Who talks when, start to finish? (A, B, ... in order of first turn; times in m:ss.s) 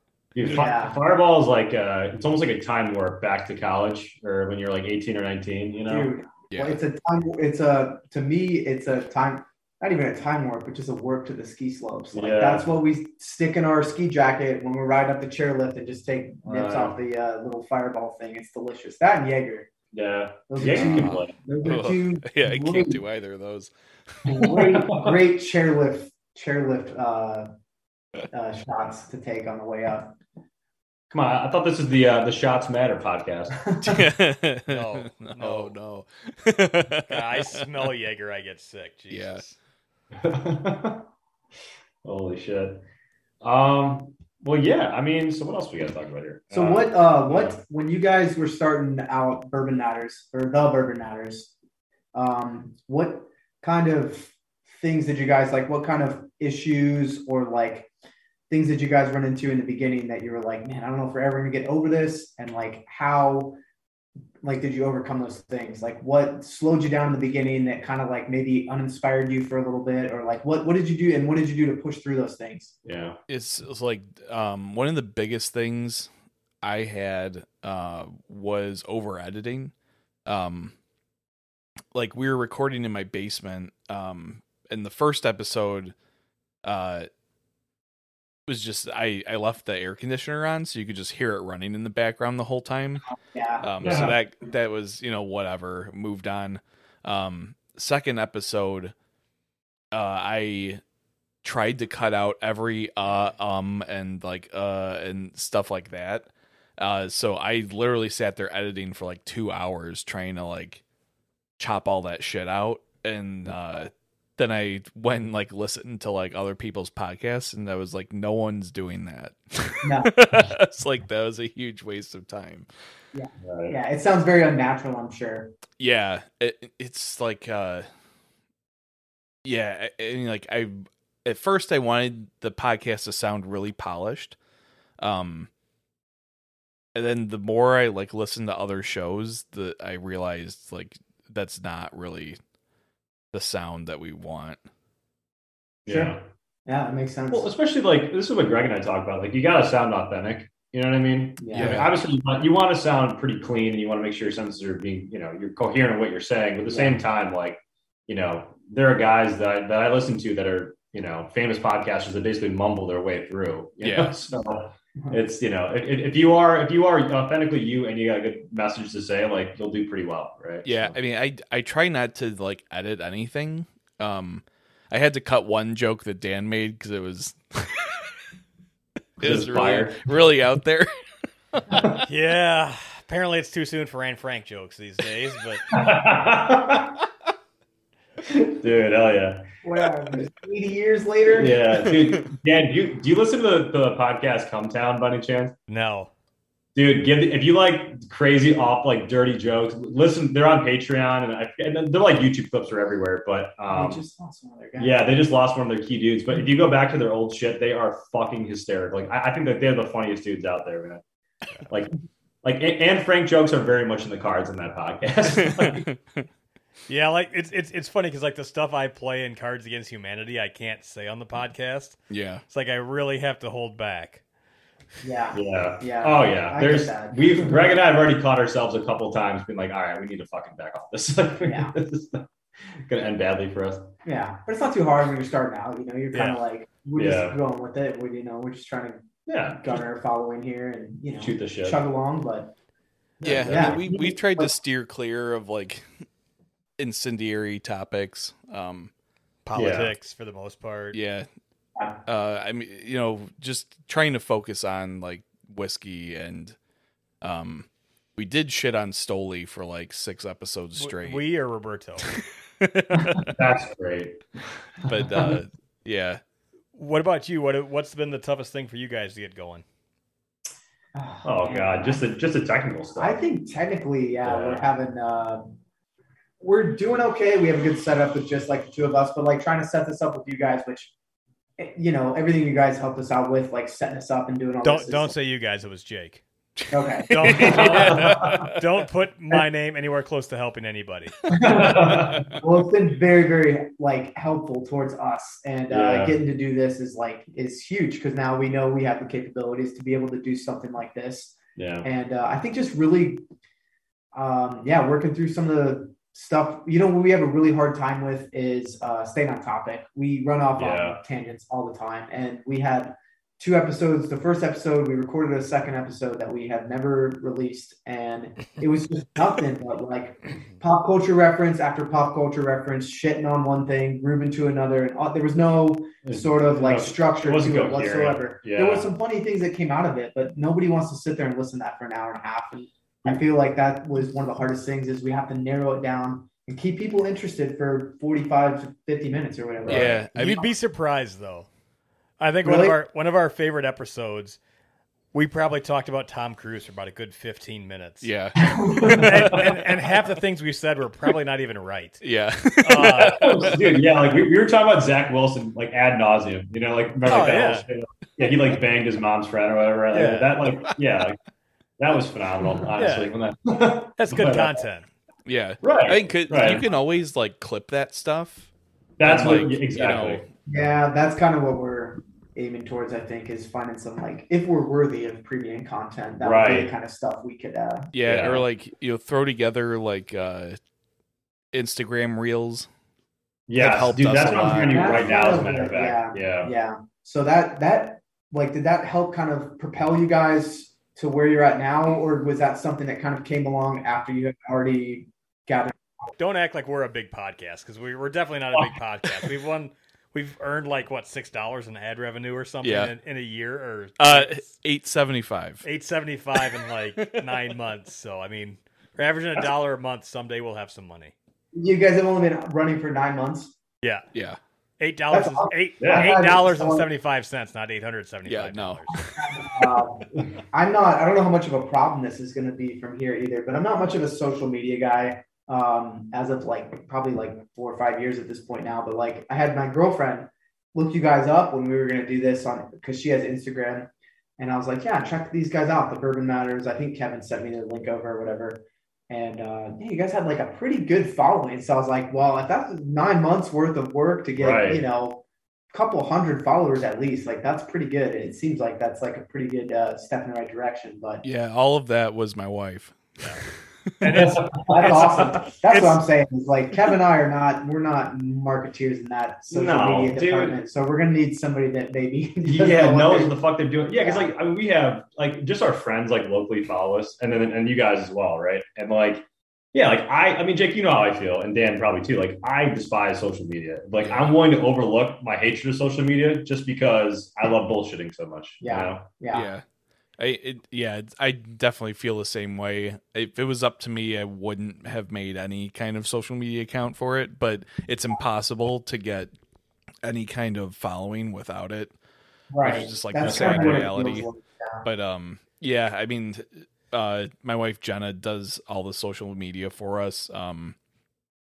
0:00.3-0:06.1 A
0:00.4-0:01.0 B
0:05.9-0:19.7 B
0:06.5-0:06.8 C
0:12.1-0:12.7 A
0:16.4-0:16.9 A
0:19.9-0:21.3 A
0:20.5-0:23.0 B
0:20.6-0:23.7 C
0:24.2-0:27.5 B
0:24.4-0:25.1 A
0:28.3-0:30.2 B
0:31.1-0:33.7 A
0:33.7-0:34.0 B
0:33.8-0:37.7 C
0:34.7-0:35.7 D
0:37.1-0:39.5 D
0:39.1-0:39.4 C
0:40.1-0:41.1 A
0:42.0-0:42.8 A
0:43.4-0:47.6 A
0:46.5-0:51.5 B
0:52.1-0:57.9 B
0:58.5-1:03.6 B
1:04.4-1:12.7 B
1:12.8-1:13.2 A
1:13.3-1:16.1 C
1:16.6-1:19.7 C
1:20.2-1:20.7 C
1:21.9-1:25.9 C
1:26.6-1:27.1 C
1:28.5-1:33.1 C
1:33.1-1:34.0 B
1:33.6-1:38.9 C
1:33.8-1:34.1 A
1:39.9-1:40.8 C
1:41.4-1:50.8 C
1:51.6-2:02.7 C
1:59.8-2:00.1 B
2:03.1-2:05.5 B
2:03.4-2:03.7 A
2:05.8-2:07.9 C
2:09.4-2:14.4 C
2:15.0-2:15.5 C
2:16.9-2:22.4 C
2:23.3-2:24.6 C
2:25.8-2:26.2 A
2:25.8-2:27.5 B
2:27.3-2:51.0 A
2:31.4-2:31.9 B
2:31.5-2:31.9 C
2:36.7-2:37.0 B
2:43.8-2:44.2 C
2:50.6-2:58.1 C
2:59.2-3:00.9 C
2:59.2-3:00.1 A
3:01.7-3:02.0 C
3:01.8-3:02.0 A
3:02.1-3:05.6 D
3:05.7-3:07.0 A
3:08.3-3:09.4 A
3:09.6-3:11.9 B
3:11.3-3:15.6 A
3:15.7-3:16.1 D
3:16.7-3:24.0 A
3:23.7-3:25.0 B
3:24.8-3:31.0 A
3:31.7-3:35.9 A
3:35.5-3:36.3 C
3:36.9-3:42.0 D
3:42.1-3:42.4 C
3:42.5-3:44.2 D
3:45.0-3:47.6 B
3:45.3-3:52.3 A
3:51.4-3:51.7 B
3:52.8-3:53.9 A
3:54.0-4:02.5 B
3:56.1-3:56.4 A
3:57.0-3:57.4 A
3:59.3-3:59.8 A
4:01.2-4:01.8 A
4:03.2-4:04.0 A
4:03.2-4:05.9 C
4:03.3-4:04.5 B
4:06.8-4:08.9 C
4:09.4-4:11.0 D
4:09.5-4:09.9 A
4:10.9-4:11.3 C
4:12.0-4:16.6 C
4:17.2-4:21.2 C
4:20.8-4:22.1 D
4:22.6-4:23.3 C
4:23.2-4:24.2 A
4:24.8-4:25.4 A
4:24.8-4:26.2 C
4:26.7-4:29.6 D
4:30.9-4:32.0 B
4:31.2-4:33.2 A
4:33.0-4:35.4 B
4:34.2-4:34.6 A
4:36.4-4:40.9 B
4:41.6-4:45.1 B
4:44.6-4:46.2 D
4:46.7-4:47.7 B
4:47.1-4:48.6 C
4:47.1-4:51.3 D
4:47.4-4:48.4 A
4:51.3-4:52.4 A
4:51.4-5:03.2 B
4:55.7-4:56.2 A
5:01.6-5:01.9 A
5:04.1-5:40.5 B
5:10.6-5:11.0 A
5:26.0-5:28.8 A
5:39.6-5:39.9 A
5:39.7-5:40.5 C
5:40.1-5:41.5 D
5:42.2-5:44.4 D
5:42.4-5:42.8 B
5:45.1-5:48.1 D
5:48.0-5:49.4 C
5:48.4-5:49.1 B
5:48.8-5:49.4 A
5:49.0-5:52.0 D
5:52.0-5:53.6 C
5:52.6-5:53.3 D
5:53.0-6:01.2 A
5:57.0-5:57.7 D
5:59.9-6:00.3 D
6:01.8-6:04.6 A
6:02.8-6:03.1 D
6:04.0-6:04.9 D
6:05.2-6:08.5 C
6:05.6-6:06.7 A
6:09.0-6:10.2 A
6:09.0-6:10.2 C
6:10.5-6:17.9 B
6:16.2-6:16.7 A
6:17.9-6:20.6 C
6:18.0-6:18.4 A
6:21.5-6:22.7 C
6:23.5-6:26.5 A
6:23.6-6:25.2 C
6:24.7-6:36.1 B
6:36.2-6:44.5 D
6:42.6-6:42.9 C
6:44.0-6:45.6 C
6:45.6-6:51.1 D
6:47.0-6:47.3 C
6:51.5-6:53.5 B
6:54.1-6:54.4 C
6:54.8-6:59.0 D
6:55.1-6:56.9 B
6:55.8-6:56.1 A
6:58.2-6:59.4 C
6:59.1-7:31.2 B
7:24.4-7:24.8 A
7:31.2-7:33.1 C
7:33.2-7:33.4 D
7:34.0-7:36.0 D
7:34.1-7:35.3 A
7:34.7-7:43.4 B
7:39.5-7:40.6 A
7:42.4-7:59.0 A
7:43.9-7:44.3 B
7:58.6-7:59.5 B
7:59.3-7:59.6 C
8:00.2-8:09.3 C
8:10.0-8:11.9 C
8:12.5-8:14.8 B
8:12.6-8:14.3 C
8:13.2-8:13.8 A
8:14.8-8:20.8 C